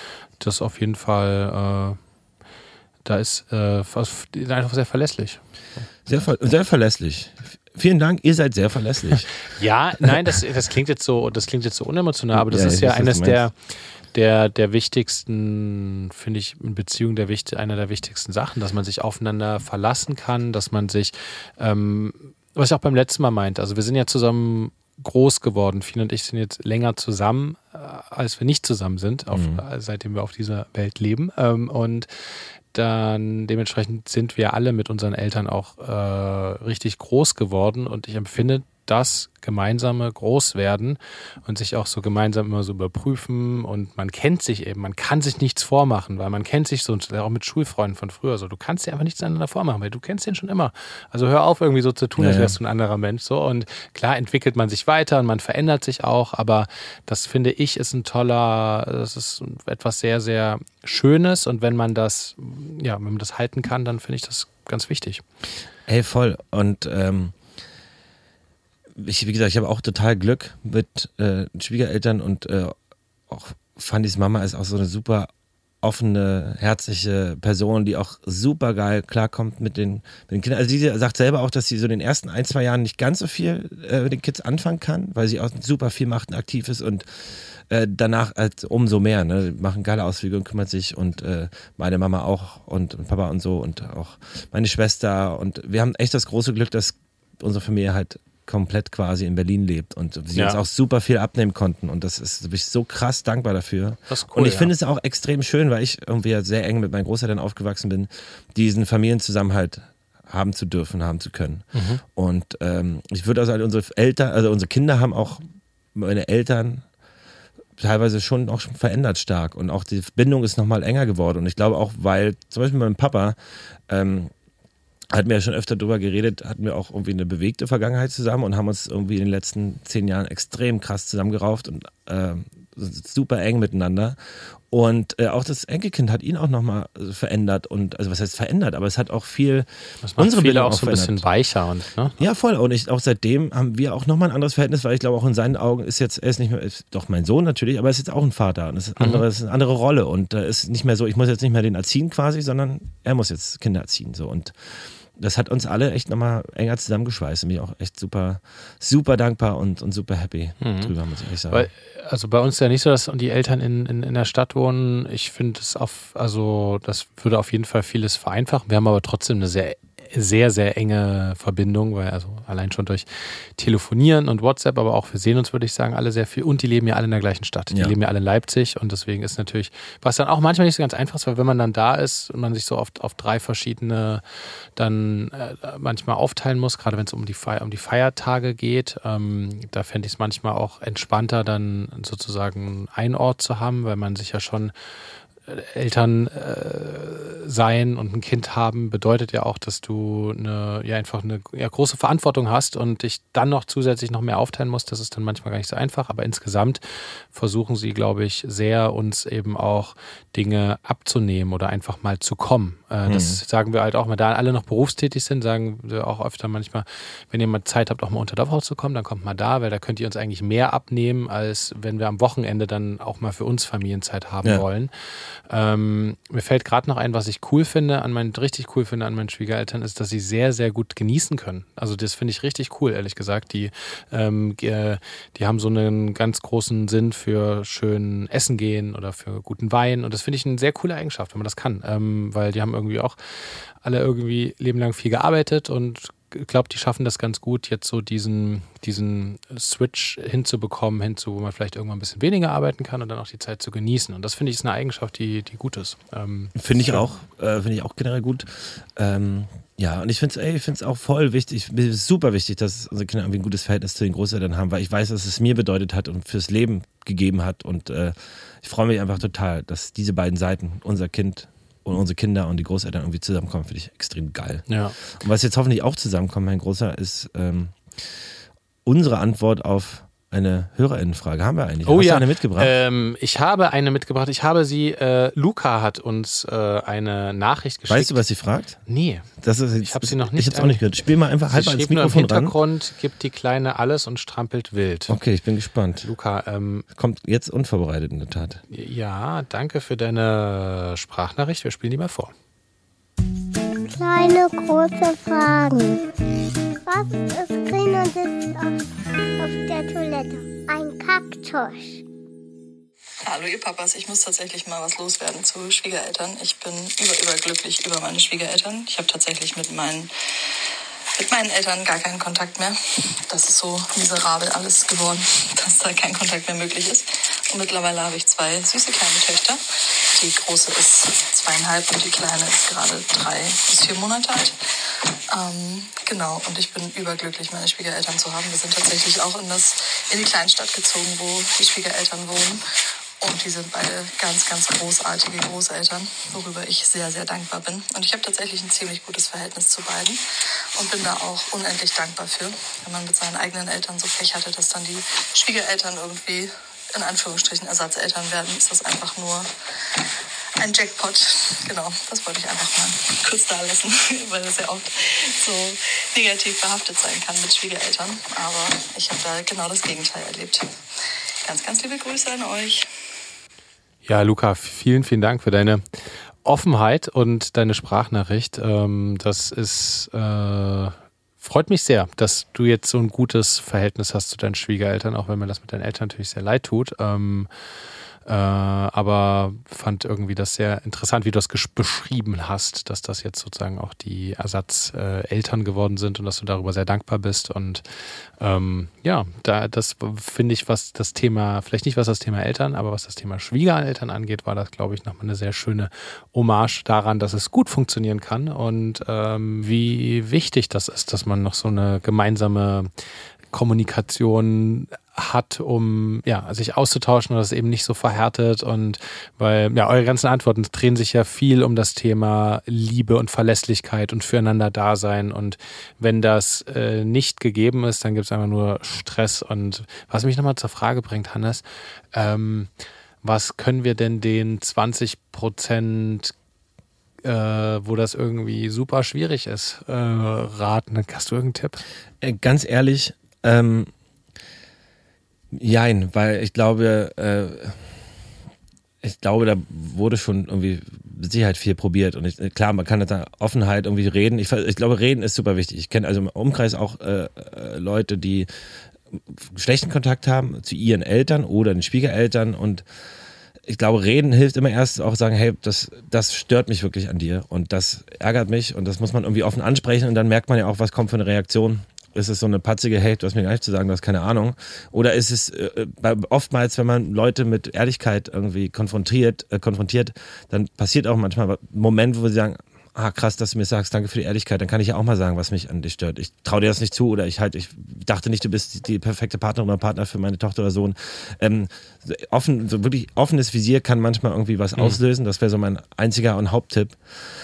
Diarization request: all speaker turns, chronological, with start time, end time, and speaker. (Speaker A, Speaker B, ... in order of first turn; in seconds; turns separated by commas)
Speaker A: 0.4-2.0, Speaker A: 3.0-5.4, Speaker B: 6.0-9.3, Speaker A: 9.5-13.5, Speaker B: 12.3-13.4, Speaker A: 14.1-32.1, Speaker B: 29.3-29.6, Speaker A: 32.7-65.2, Speaker B: 52.2-52.5, Speaker B: 65.9-67.3, Speaker B: 69.0-72.7, Speaker B: 73.3-75.3, Speaker B: 75.8-115.4, Speaker A: 104.1-104.7, Speaker A: 111.7-112.0, Speaker B: 115.9-116.8, Speaker B: 117.8-123.3, Speaker B: 123.9-124.3, Speaker B: 125.1-134.2, Speaker B: 134.7-141.2, Speaker A: 140.0-142.2, Speaker B: 142.2-161.7, Speaker A: 149.0-149.2, Speaker A: 160.6-160.9, Speaker A: 161.5-184.2, Speaker B: 177.7-177.9, Speaker A: 184.8-194.7, Speaker A: 195.5-243.2, Speaker B: 213.1-213.4, Speaker A: 243.8-257.1, Speaker B: 256.5-277.8, Speaker A: 274.7-274.9, Speaker B: 278.9-282.7, Speaker A: 281.9-288.2, Speaker B: 287.9-288.8, Speaker A: 288.9-289.3, Speaker B: 289.4-292.5, Speaker A: 289.8-290.8, Speaker A: 291.5-295.1, Speaker B: 295.1-296.1, Speaker A: 296.0-296.9, Speaker B: 296.9-298.6, Speaker A: 298.7-302.3, Speaker C: 303.8-306.1, Speaker C: 306.8-308.9, Speaker C: 309.4-312.0, Speaker D: 313.2-320.1, Speaker D: 321.1-334.6, Speaker D: 335.3-342.6, Speaker D: 343.2-350.2, Speaker D: 350.7-359.5, Speaker D: 360.6-370.7, Speaker D: 371.4-372.9, Speaker A: 374.0-375.8, Speaker A: 376.4-387.5, Speaker A: 388.2-397.8, Speaker A: 398.4-412.9, Speaker A: 413.5-431.6, Speaker A: 432.1-432.7, Speaker A: 433.2-436.3, Speaker A: 437.2-441.8, Speaker B: 442.2-443.9, Speaker B: 445.5-447.9, Speaker B: 449.0-458.5, Speaker B: 459.1-462.8, Speaker B: 463.7-497.0